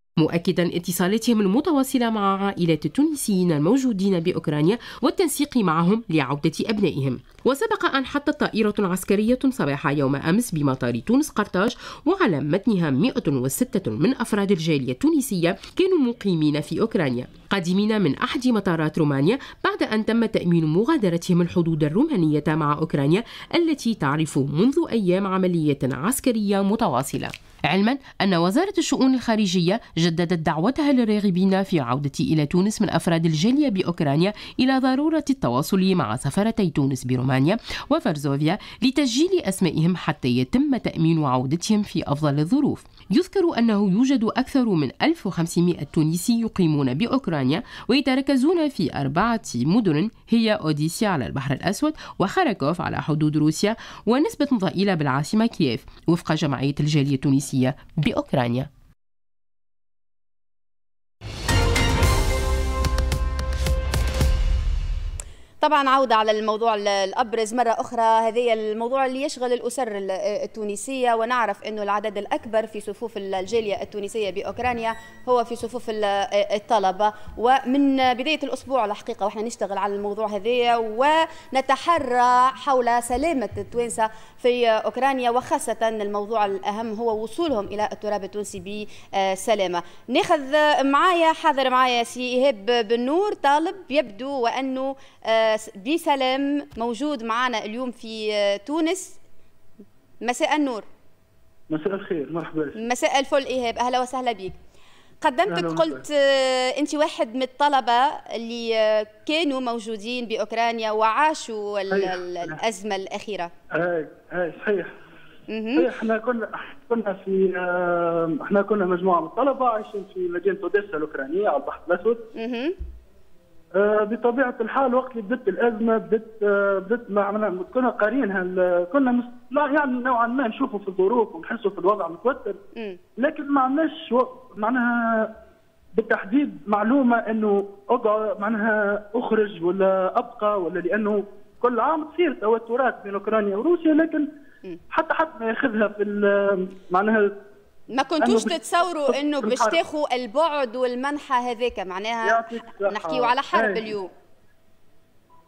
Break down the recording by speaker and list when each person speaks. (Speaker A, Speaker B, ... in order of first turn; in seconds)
Speaker A: 0.2-58.7
Speaker B: 65.6-99.2, 100.2-100.8, 102.8-104.5, 105.2-113.5, 115.5-115.9, 122.3-122.8, 147.9-154.1
Speaker C: 101.7-102.8, 105.5-106.0, 111.9-112.6, 113.8-115.0, 115.8-122.2, 123.8-132.6, 133.2-135.3, 135.9-144.2, 144.9-147.3, 148.2-149.8, 152.2-153.9